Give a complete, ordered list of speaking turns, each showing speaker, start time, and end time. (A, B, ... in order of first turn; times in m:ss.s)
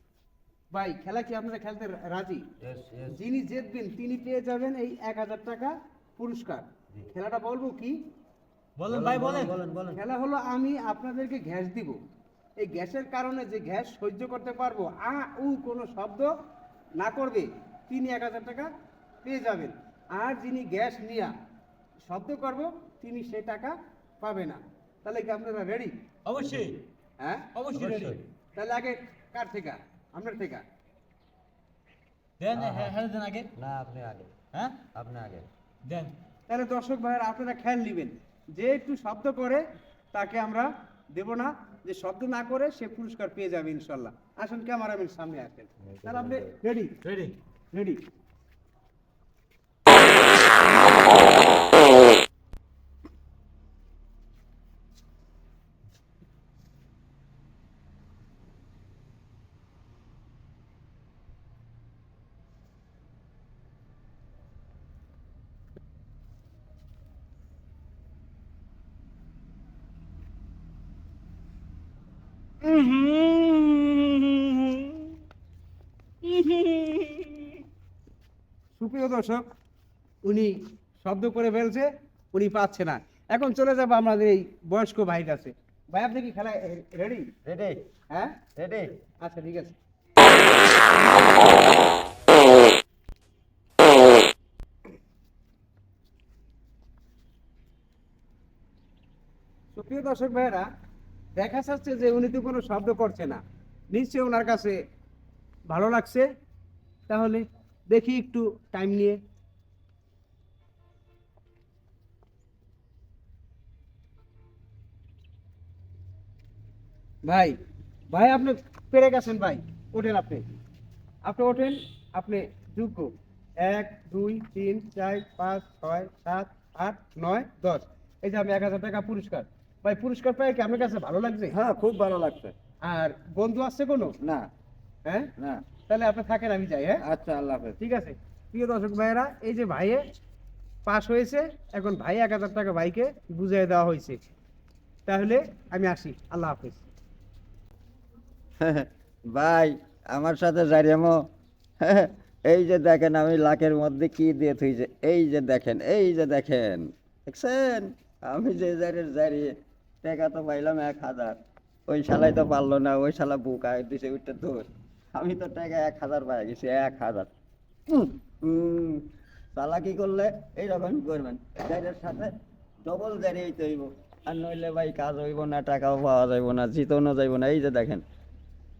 0:00.7-0:02.4 A
0:02.6-0:03.2 B
0:03.1-0:08.0 A
0:08.8-0:09.5 C
0:08.9-0:10.0 B
0:09.9-0:12.0 A
0:12.6-0:16.3 A
0:17.0-0:18.7 A
0:19.2-0:21.3 A
0:22.1-0:25.9 A
0:26.2-0:26.8 C
0:27.2-0:27.5 A
0:27.5-0:28.2 C
0:27.7-0:28.2 B
0:28.5-0:30.6 A
0:32.4-0:33.5 C
0:32.5-0:33.0 B
0:33.5-0:35.5 B
0:35.8-0:36.1 C
0:36.5-0:47.0 A
0:45.9-0:46.5 B
0:47.0-0:47.3 C
0:47.7-0:48.0 A
1:12.8-1:13.8 B
1:12.8-1:13.1 C
1:16.5-1:16.8 B
1:18.8-1:19.4 A
1:20.2-1:27.3 A
1:27.4-1:27.9 B
1:28.1-1:28.4 A
1:28.6-1:29.0 B
1:29.2-1:29.7 A
1:39.7-1:40.7 A
1:41.4-1:44.8 A
1:45.7-1:46.3 A
1:47.1-1:49.2 A
1:57.2-1:57.6 A
1:58.1-2:00.5 A
2:01.2-2:11.6 A
2:11.5-2:12.5 B
2:12.8-2:14.1 A
2:14.2-2:14.5 B
2:15.4-2:15.6 B
2:15.9-2:17.0 A
2:17.0-2:17.8 B
2:17.8-2:20.0 A
2:20.9-2:24.2 A
2:25.1-2:26.9 A
2:28.6-2:31.2 B
2:31.8-2:47.3 B
2:47.9-2:52.3 B
2:52.8-2:58.0 B